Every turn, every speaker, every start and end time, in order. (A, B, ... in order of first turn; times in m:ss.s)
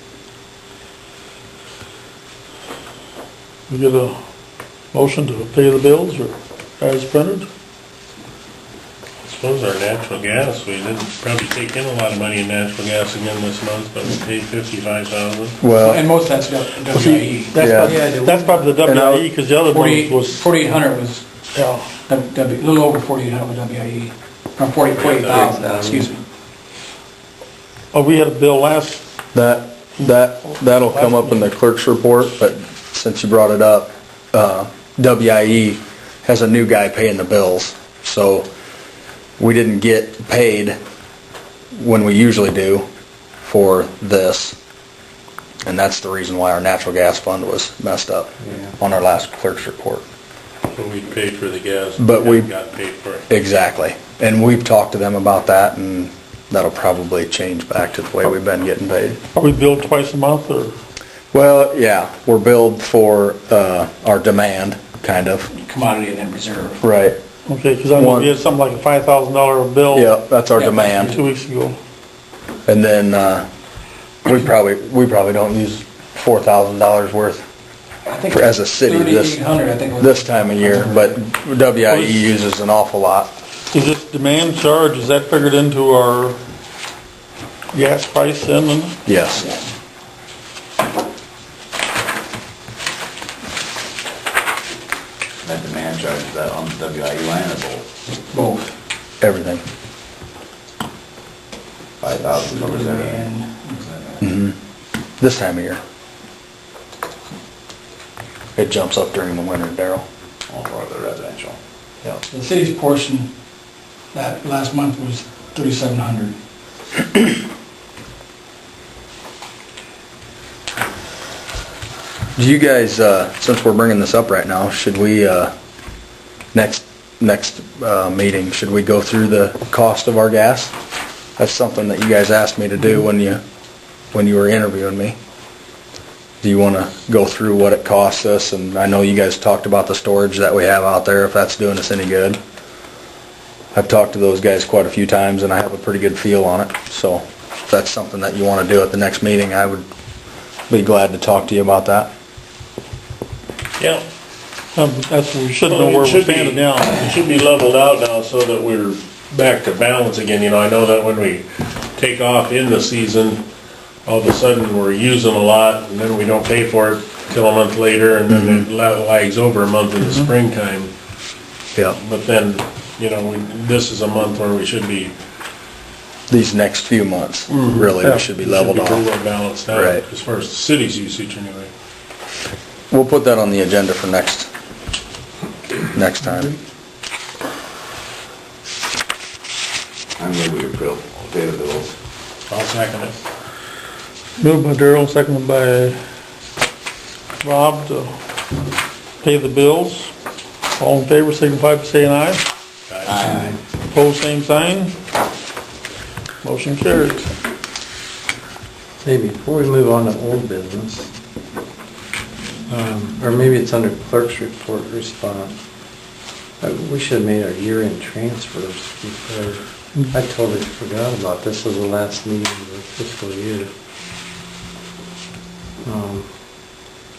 0:03.7-0:04.2 A
0:04.9-0:07.5 A
0:09.2-0:15.6 B
0:15.6-0:16.0 C
0:15.8-0:18.7 D
0:16.9-0:20.5 A
0:17.6-0:18.0 C
0:18.8-0:19.2 C
0:19.7-0:21.3 D
0:21.5-0:21.9 A
0:22.1-0:26.2 D
0:25.0-0:25.6 B
0:27.9-0:29.0 A
0:29.3-0:38.5 C
0:30.0-0:31.4 A
0:39.4-0:40.8 C
0:41.7-0:42.8 C
0:43.4-0:44.6 C
0:45.6-0:50.0 C
0:50.7-0:53.2 B
0:52.0-0:52.5 C
0:53.3-0:59.2 C
0:59.3-1:00.7 A
1:01.3-1:05.5 C
1:05.5-1:06.8 D
1:06.8-1:07.2 C
1:07.5-1:10.1 A
1:08.0-1:08.3 C
1:09.9-1:11.2 C
1:10.6-1:11.0 D
1:11.0-1:11.8 A
1:12.7-1:13.5 C
1:14.2-1:17.4 C
1:18.1-1:21.0 D
1:18.3-1:19.4 C
1:20.0-1:23.3 C
1:21.9-1:22.2 A
1:23.7-1:26.4 A
1:27.7-1:29.0 A
1:29.0-1:29.4 C
1:35.4-1:37.8 E
1:38.3-1:38.7 D
1:39.2-1:39.6 C
1:42.0-1:44.2 E
1:42.0-1:43.7 D
1:44.2-1:44.6 C
1:45.2-1:45.8 C
1:48.6-1:50.0 C
1:50.5-1:51.6 E
1:52.3-1:53.3 D
1:54.1-1:56.4 D
2:02.4-2:05.5 C
2:06.5-2:10.7 C
2:11.4-2:13.4 C
2:14.1-2:15.2 C
2:16.4-2:22.4 C
2:23.7-2:29.8 C
2:30.7-2:32.1 C
2:33.8-2:34.0 B
2:34.8-2:37.1 A
2:35.6-2:43.4 B
2:44.0-2:50.9 B
2:48.3-2:48.6 C
2:50.0-2:50.3 A
2:51.9-2:55.1 B
2:56.3-2:59.0 C
2:57.5-3:01.7 B
2:58.0-2:58.3 A
2:59.7-3:00.0 C
3:02.9-3:04.5 C
3:05.9-3:06.5 C
3:10.2-3:11.9 E
3:12.5-3:13.1 B
3:14.4-3:16.0 A
3:17.4-3:18.1 A
3:19.2-3:20.1 A
3:20.8-3:22.4 A
3:22.9-3:23.3 B
3:23.1-3:23.5 E
3:23.3-3:23.5 F
3:23.9-3:25.0 A
3:26.4-3:27.3 A
3:29.0-3:31.1 F
3:32.7-3:35.6 F
3:36.6-3:43.7 F
3:45.8-3:46.3 F